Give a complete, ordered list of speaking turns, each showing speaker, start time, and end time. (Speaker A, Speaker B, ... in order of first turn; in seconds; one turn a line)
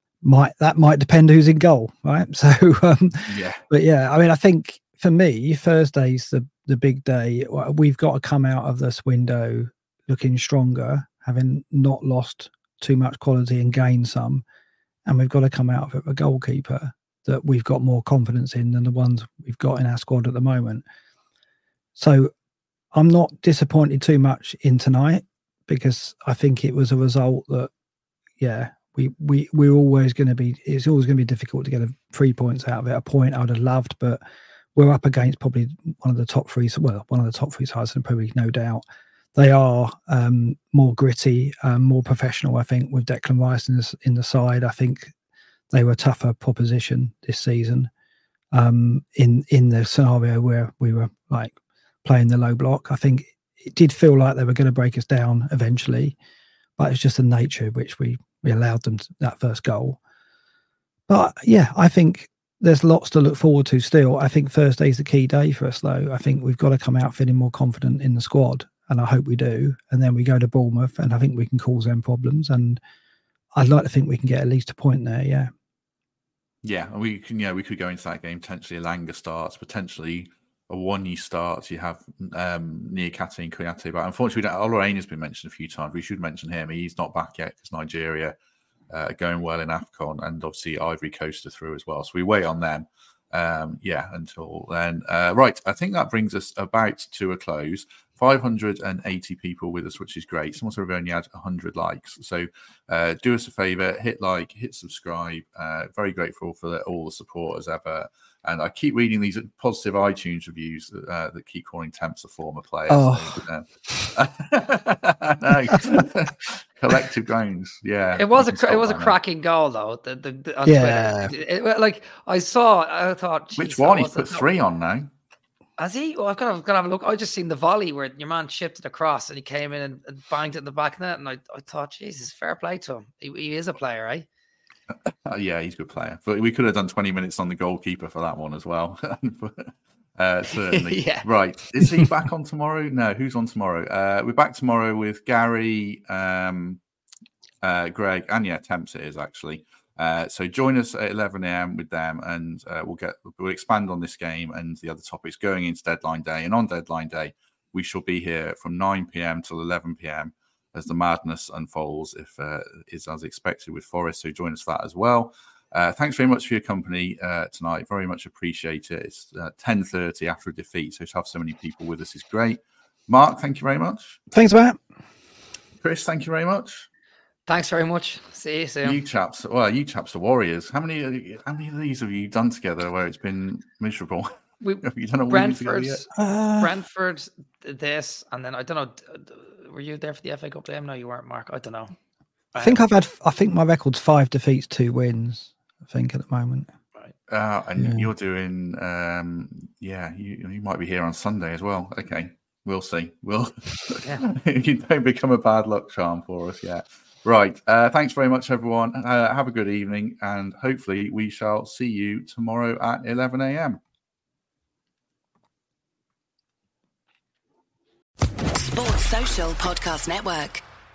Speaker A: 0.2-14.4
Speaker B: 3.3-3.6
Speaker A: 15.1-20.8
Speaker A: 21.9-22.3
Speaker A: 22.9-27.7
Speaker A: 28.4-34.2
Speaker A: 34.7-38.8
Speaker A: 39.3-45.1
Speaker A: 45.7-47.9
Speaker A: 48.5-56.1
Speaker A: 56.8-60.0
Speaker A: 61.1-72.8
Speaker A: 73.5-75.5
Speaker B: 76.6-88.3
Speaker B: 88.9-119.1
Speaker A: 112.9-113.4
Speaker C: 118.2-124.4
Speaker A: 120.6-121.3
Speaker B: 123.6-125.1
Speaker C: 125.8-134.3
Speaker B: 135.2-146.8
Speaker C: 140.7-141.2
Speaker B: 147.6-174.2
Speaker A: 174.3-174.8
Speaker B: 175.8-176.9
Speaker C: 177.5-179.0
Speaker B: 178.8-184.3
Speaker C: 184.6-186.1
Speaker B: 184.8-186.0
Speaker A: 186.1-186.7
Speaker C: 186.6-191.9
Speaker C: 192.5-192.8
Speaker A: 192.6-196.7
Speaker B: 197.3-213.8
Speaker A: 197.8-198.1
Speaker D: 218.6-220.6